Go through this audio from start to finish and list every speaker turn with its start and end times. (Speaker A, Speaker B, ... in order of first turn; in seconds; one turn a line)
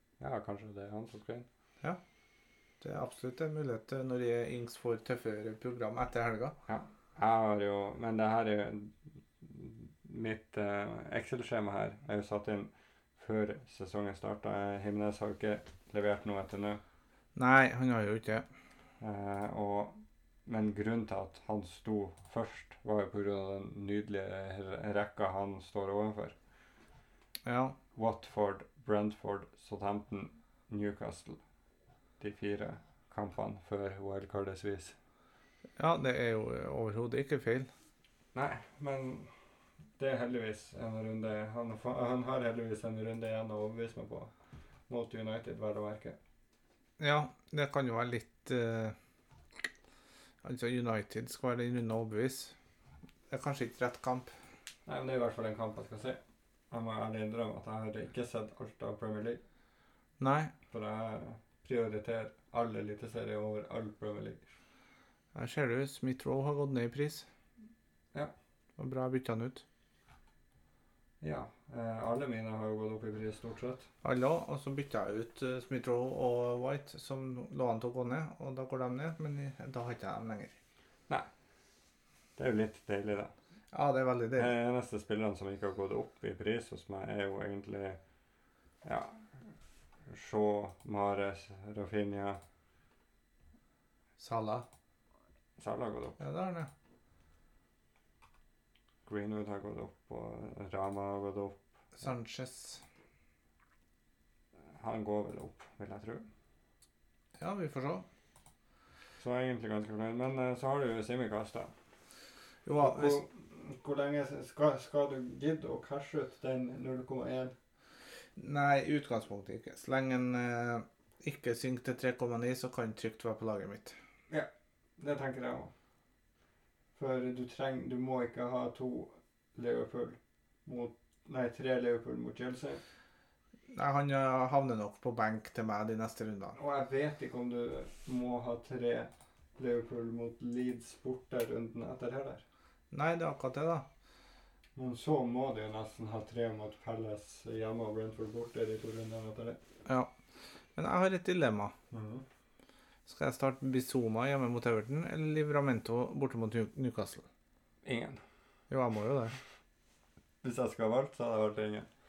Speaker A: 0.2-1.5
Speaker B: 2.8-6.6
Speaker A: 6.7-16.8
Speaker B: 17.4-18.5
Speaker A: 19.0-26.4
Speaker B: 27.5-27.8
Speaker A: 27.9-31.4
Speaker A: 32.2-35.0
Speaker B: 35.8-37.7
Speaker A: 38.3-39.3
Speaker A: 40.0-44.3
Speaker A: 44.9-46.2
Speaker B: 47.0-49.0
Speaker B: 50.4-52.5
Speaker B: 53.3-54.3
Speaker A: 54.9-56.2
Speaker A: 56.7-59.4
Speaker B: 60.2-60.5
Speaker A: 60.7-64.4
Speaker B: 65.3-67.3
Speaker B: 68.8-69.7
Speaker A: 71.2-73.9
Speaker B: 74.0-80.6
Speaker A: 82.4-83.3
Speaker B: 83.7-84.5
Speaker A: 84.4-88.0
Speaker A: 88.8-89.5
Speaker A: 90.1-92.4
Speaker B: 94.2-94.7
Speaker A: 95.6-96.2
Speaker B: 96.2-96.7
Speaker A: 99.1-101.6
Speaker B: 102.0-102.8
Speaker A: 104.7-106.3
Speaker B: 107.4-108.1
Speaker A: 109.2-111.7
Speaker B: 112.7-113.2
Speaker A: 112.8-117.5
Speaker B: 118.4-124.0
Speaker A: 124.3-125.7
Speaker A: 127.0-132.8
Speaker B: 133.7-136.6
Speaker A: 136.6-142.4
Speaker B: 142.9-143.9
Speaker A: 144.8-149.6
Speaker B: 149.9-150.1
Speaker B: 150.8-151.7
Speaker A: 151.9-152.2
Speaker B: 153.1-157.3
Speaker A: 157.8-158.2
Speaker B: 158.7-159.4
Speaker A: 160.4-161.9